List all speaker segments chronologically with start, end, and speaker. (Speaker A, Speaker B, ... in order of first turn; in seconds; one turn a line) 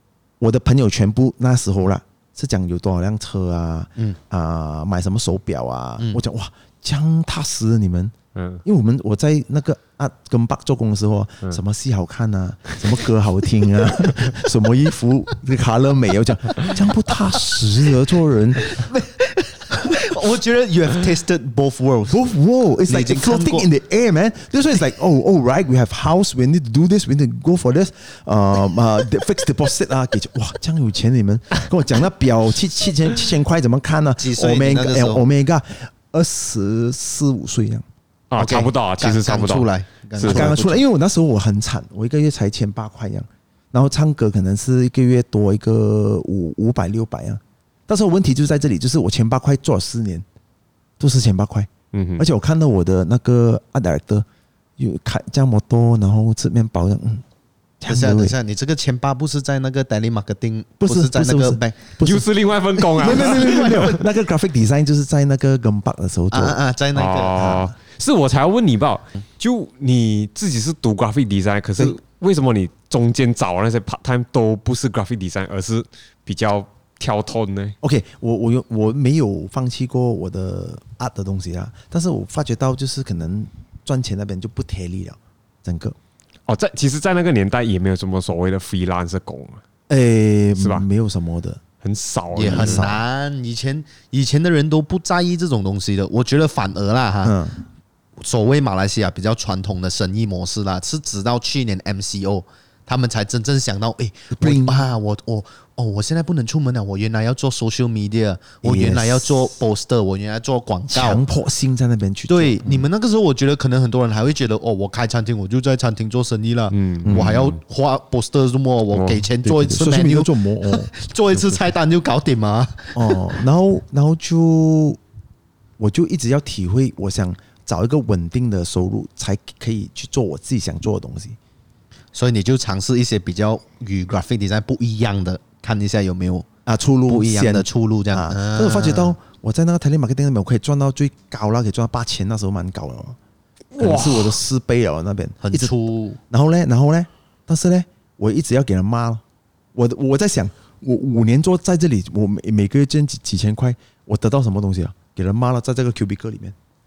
Speaker A: 0.4-18.8
Speaker B: 8.3-8.6
Speaker C: 18.6-22.2
Speaker A: 22.1-37.9
Speaker C: 22.9-23.7
Speaker C: 34.2-35.3
Speaker B: 38.3-40.6
Speaker C: 38.4-40.8
Speaker A: 40.2-50.2
Speaker A: 51.0-54.2
Speaker B: 51.9-52.2
Speaker A: 54.8-57.2
Speaker A: 57.8-58.4
Speaker C: 57.9-61.9
Speaker A: 60.8-62.3
Speaker B: 62.0-64.0
Speaker C: 62.9-64.0
Speaker A: 62.9-66.6
Speaker C: 66.3-67.7
Speaker B: 67.0-77.8
Speaker A: 77.8-86.0
Speaker B: 86.5-89.6
Speaker A: 89.9-91.6
Speaker B: 90.6-90.9
Speaker B: 91.8-92.9
Speaker C: 92.3-97.4
Speaker A: 92.4-93.0
Speaker A: 97.2-97.6
Speaker C: 98.2-111.2
Speaker A: 104.3-104.9
Speaker A: 108.6-109.5
Speaker A: 110.9-112.9
Speaker C: 112.3-123.2
Speaker B: 116.7-117.6
Speaker A: 117.0-117.4
Speaker B: 118.9-119.3
Speaker A: 119.4-120.9
Speaker A: 123.0-125.0
Speaker A: 125.8-131.4
Speaker C: 132.1-136.5
Speaker A: 136.7-143.2
Speaker C: 137.1-139.2
Speaker B: 143.8-144.4
Speaker A: 143.8-145.7
Speaker C: 145.4-146.2
Speaker A: 146.3-149.2
Speaker A: 149.8-156.6